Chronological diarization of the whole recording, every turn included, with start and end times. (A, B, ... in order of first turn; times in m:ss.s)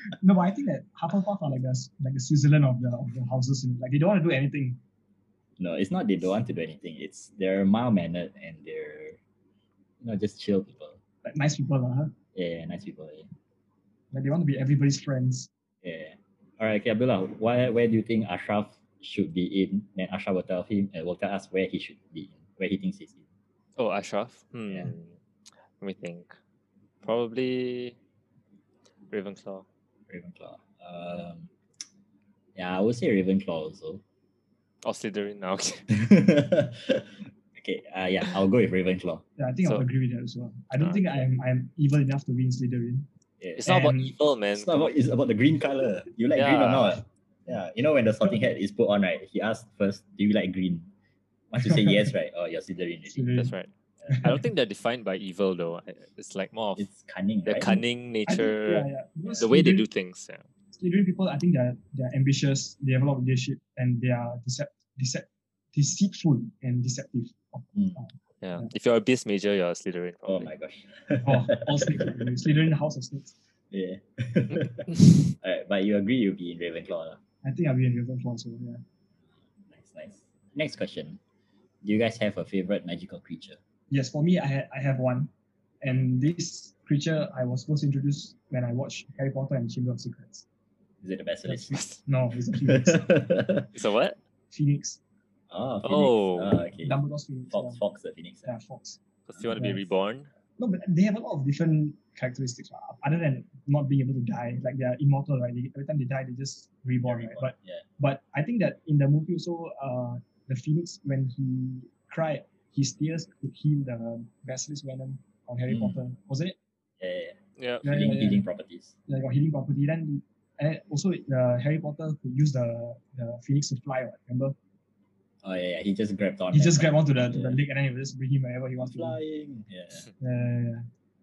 0:00.1-0:04.8 A
0:05.6-0:09.2 B
0:10.0-0:11.0 B
0:11.2-0:12.2 A
0:12.4-0:13.3 B
0:14.1-0:15.5 A
0:15.8-0:23.2 B
0:23.8-0:25.1 C
0:25.8-0:26.3 C
0:27.0-0:28.0 C
0:29.1-0:29.6 C
0:30.1-0:31.5 B
0:32.6-0:34.0 B
0:34.8-0:36.0 C
0:35.9-0:39.2 B
0:39.4-0:43.1 A
0:40.8-0:41.2 C
0:43.4-0:43.7 B
0:43.6-0:44.9 C
0:43.6-0:44.1 A
0:44.5-0:50.9 B
0:46.4-0:47.0 C
0:51.5-0:53.4 B
0:53.1-0:53.5 A
0:53.4-0:56.9 C
0:54.1-0:54.4 A
0:56.8-0:57.8 B
0:57.5-1:00.4 C
0:58.3-0:59.9 A
1:00.7-1:08.7 A
1:07.8-1:08.0 B
1:08.4-1:10.5 C
1:10.3-1:12.2 B
1:11.2-1:13.4 A
1:13.7-1:17.2 B
1:17.4-1:18.8 A
1:19.7-1:21.2 B
1:21.8-1:23.6 B
1:23.9-1:30.4 A
1:31.0-1:31.8 B
1:31.5-1:33.1 A
1:32.6-1:33.7 B
1:33.7-1:34.2 C
1:34.5-1:35.0 A
1:35.5-1:37.0 B
1:35.8-1:36.6 C
1:36.8-1:37.8 A
1:37.5-1:38.5 B
1:38.4-1:39.0 A
1:39.3-1:40.3 C
1:39.5-1:39.9 A
1:40.6-1:56.6 A
1:47.1-1:47.8 B
1:55.7-1:56.0 B
1:57.0-1:58.9 B
1:57.6-1:57.9 C
1:57.8-1:58.4 A
1:59.1-2:04.6 A
2:05.4-2:07.6 B
2:06.5-2:09.2 A
2:08.8-2:10.1 B
2:10.2-2:10.9 A